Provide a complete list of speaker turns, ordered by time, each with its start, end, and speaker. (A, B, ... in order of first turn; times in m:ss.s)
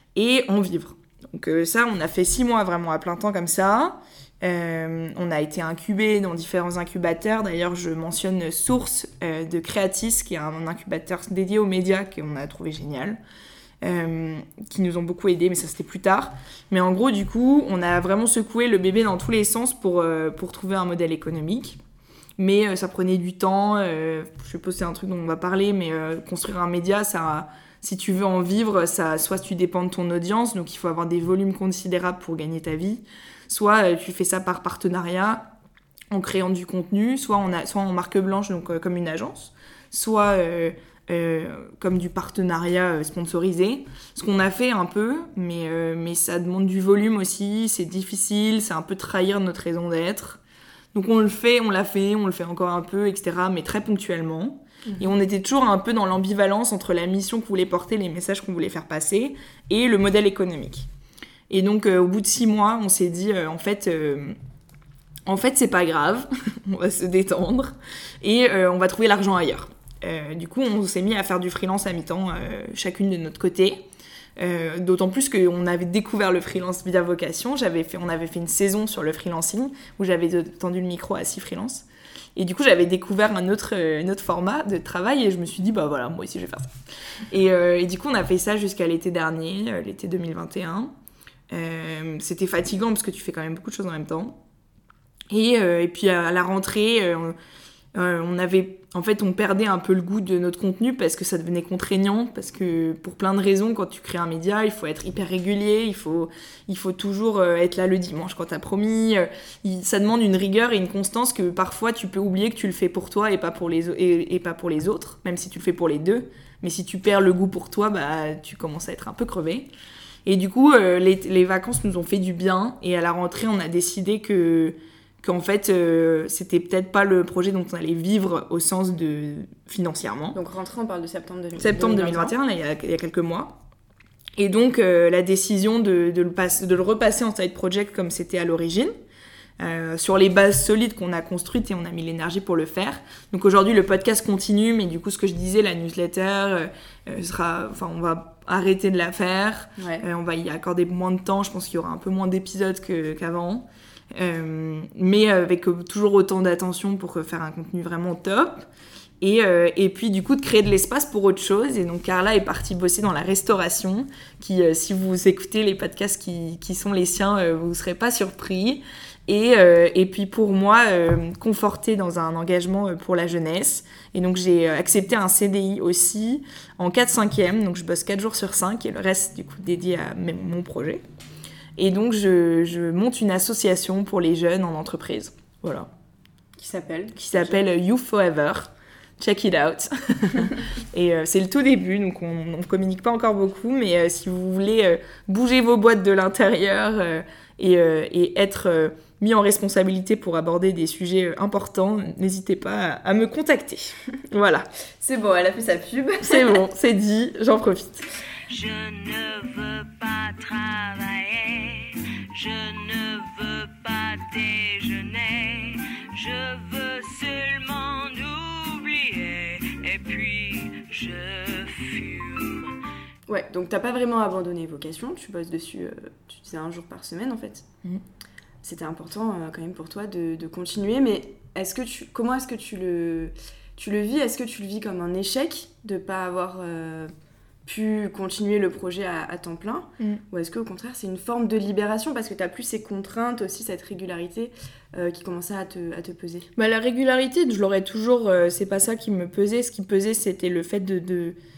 0:00.2-0:13.2 A
0:13.8-0:21.8 A
0:22.4-0:35.5 A
0:36.1-0:50.4 A
0:50.9-1:00.9 A
1:01.5-1:04.4 A
1:05.3-1:13.8 A
1:14.4-1:21.8 A
1:22.4-1:26.7 A
1:27.3-1:30.9 A
1:31.5-1:34.4 A
1:35.3-1:37.4 A
1:38.0-1:59.7 A
2:00.3-2:10.4 A
2:10.3-2:12.4 B
2:11.6-2:13.6 A
2:14.4-2:18.9 A
2:19.6-2:38.7 A
2:29.8-2:30.0 B
2:39.2-3:01.0 A
3:01.8-3:05.9 A
3:06.6-3:07.6 B
3:07.2-3:24.7 A
3:25.0-3:26.6 B
3:26.2-3:28.0 A
3:28.7-3:31.7 C
3:32.5-3:35.7 C
3:36.2-3:42.4 C
3:43.3-3:47.7 B
3:48.6-3:57.1 B
3:57.7-4:06.5 B
4:06.6-4:11.4 A